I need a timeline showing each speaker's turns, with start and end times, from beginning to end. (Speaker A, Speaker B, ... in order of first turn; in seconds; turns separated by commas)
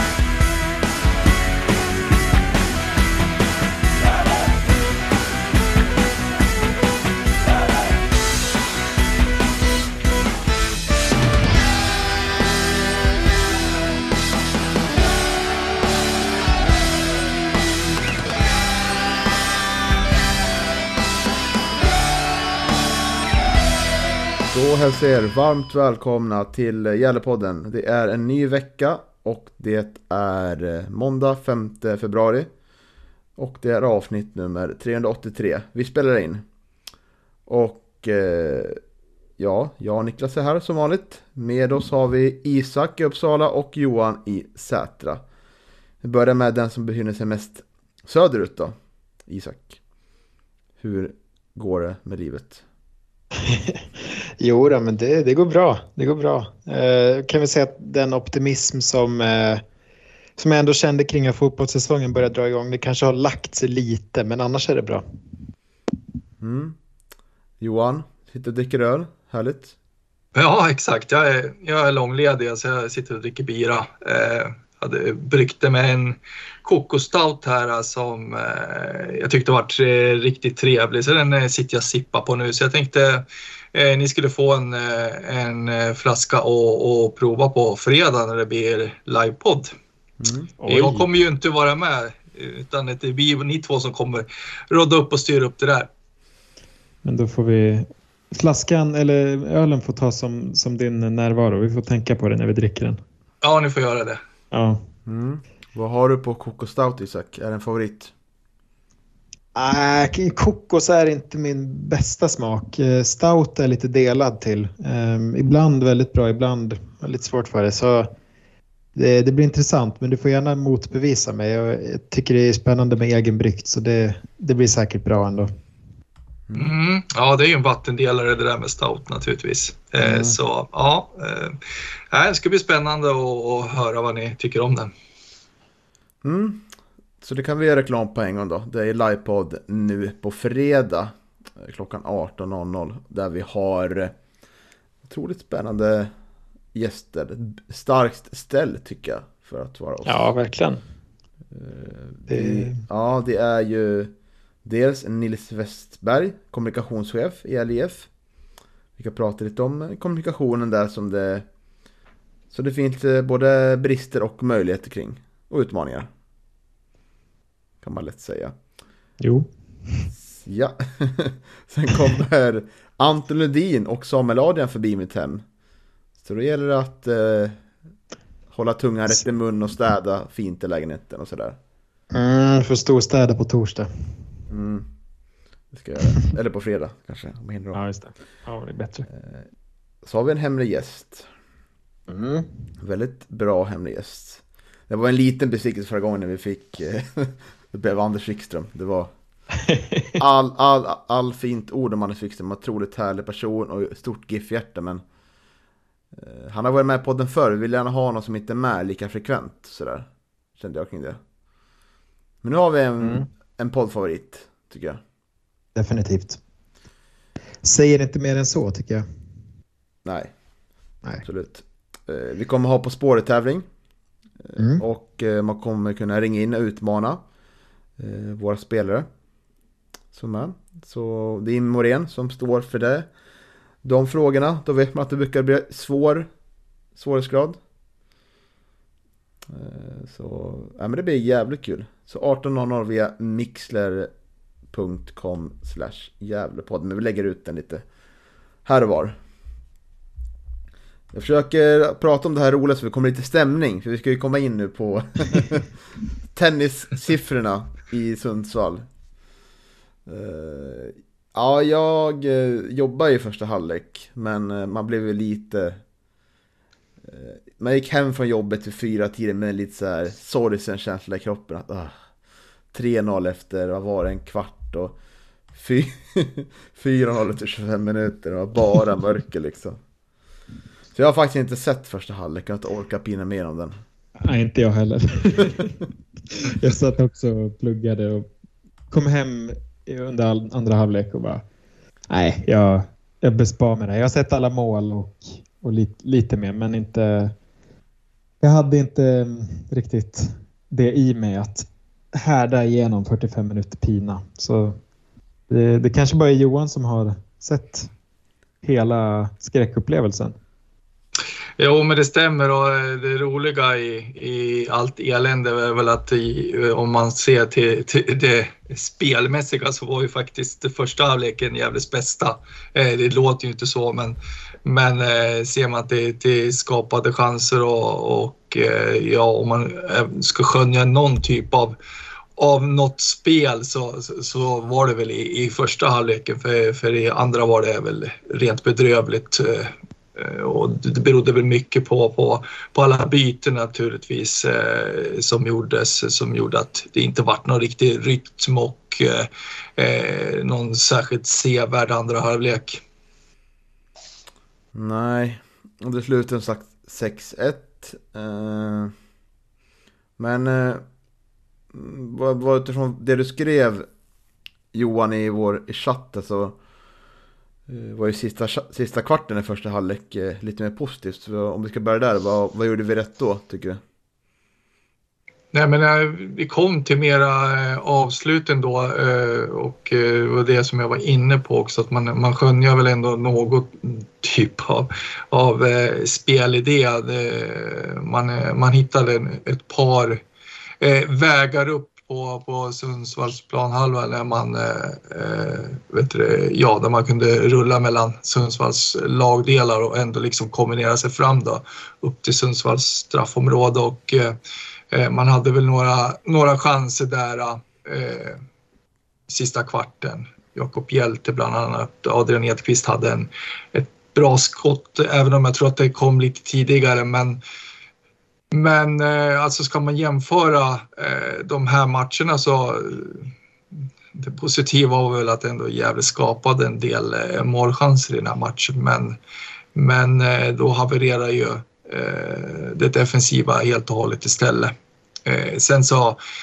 Speaker A: 24.5-32.5, Speaker A: 33.4-36.4, Speaker A: 37.5-38.8, Speaker A: 39.4-45.2, Speaker A: 46.0-48.7, Speaker A: 49.3-49.8, Speaker A: 50.8-52.6, Speaker B: 53.4-53.8, Speaker B: 54.4-59.6, Speaker B: 60.4-65.0, Speaker A: 66.4-66.8, Speaker A: 67.6-69.8, Speaker C: 70.3-89.7, Speaker A: 90.2-90.5, Speaker B: 90.6-91.0, Speaker C: 90.7-95.9, Speaker B: 97.0-103.0, Speaker C: 103.4-104.2, Speaker B: 104.5-104.8, Speaker A: 105.0-108.1, Speaker B: 109.5-118.1, Speaker B: 119.0-125.5, Speaker C: 126.6-134.9, Speaker B: 130.0-130.4, Speaker A: 136.2-136.6, Speaker A: 137.2-144.1, Speaker A: 145.0-146.1, Speaker A: 146.7-150.3, Speaker B: 150.0-150.8, Speaker A: 151.5-154.1, Speaker B: 152.3-152.8, Speaker A: 154.6-158.1, Speaker A: 159.0-161.4, Speaker A: 162.5-166.1, Speaker A: 167.8-168.5, Speaker B: 169.2-170.1, Speaker A: 170.3-175.4, Speaker A: 176.2-177.6, Speaker A: 178.5-181.6, Speaker B: 182.1-184.1, Speaker A: 184.5-184.9, Speaker A: 185.7-187.8, Speaker B: 187.7-189.1, Speaker A: 189.1-189.5, Speaker A: 190.0-191.3, Speaker B: 192.1-192.5, Speaker A: 192.8-199.1, Speaker B: 199.7-200.1, Speaker A: 200.2-205.0, Speaker A: 206.1-211.2, Speaker A: 212.4-215.0, Speaker B: 213.0-213.3, Speaker B: 215.8-216.4, Speaker B: 217.6-219.1, Speaker A: 220.0-220.3, Speaker A: 221.2-223.7, Speaker A: 224.4-227.2, Speaker B: 224.6-224.8, Speaker A: 228.0-229.1, Speaker A: 230.1-233.1, Speaker A: 233.8-236.3, Speaker A: 236.9-237.6, Speaker A: 239.5-244.1, Speaker A: 244.7-247.8, Speaker A: 248.6-249.2, Speaker A: 251.1-255.8, Speaker A: 256.3-258.8, Speaker A: 260.1-265.8, Speaker A: 267.0-271.9, Speaker A: 272.7-274.9, Speaker A: 275.5-279.8, Speaker A: 280.9-283.8, Speaker B: 284.2-285.8, Speaker B: 286.3-288.3, Speaker B: 288.9-291.4, Speaker B: 292.1-297.3, Speaker B: 298.4-304.8, Speaker B: 305.5-307.9, Speaker B: 308.6-310.4, Speaker C: 311.6-331.8, Speaker C: 332.4-352.8, Speaker A: 354.7-358.9, Speaker A: 360.2-360.8, Speaker A: 361.7-363.9, Speaker A: 364.7-366.6, Speaker A: 367.7-373.8, Speaker C: 375.5-390.2, Speaker C: 390.8-404.4, Speaker C: 404.9-408.4, Speaker C: 409.3-417.4, Speaker C: 418.5-423.3, Speaker C: 424.1-429.2, Speaker C: 429.7-434.7, Speaker C: 435.2-436.2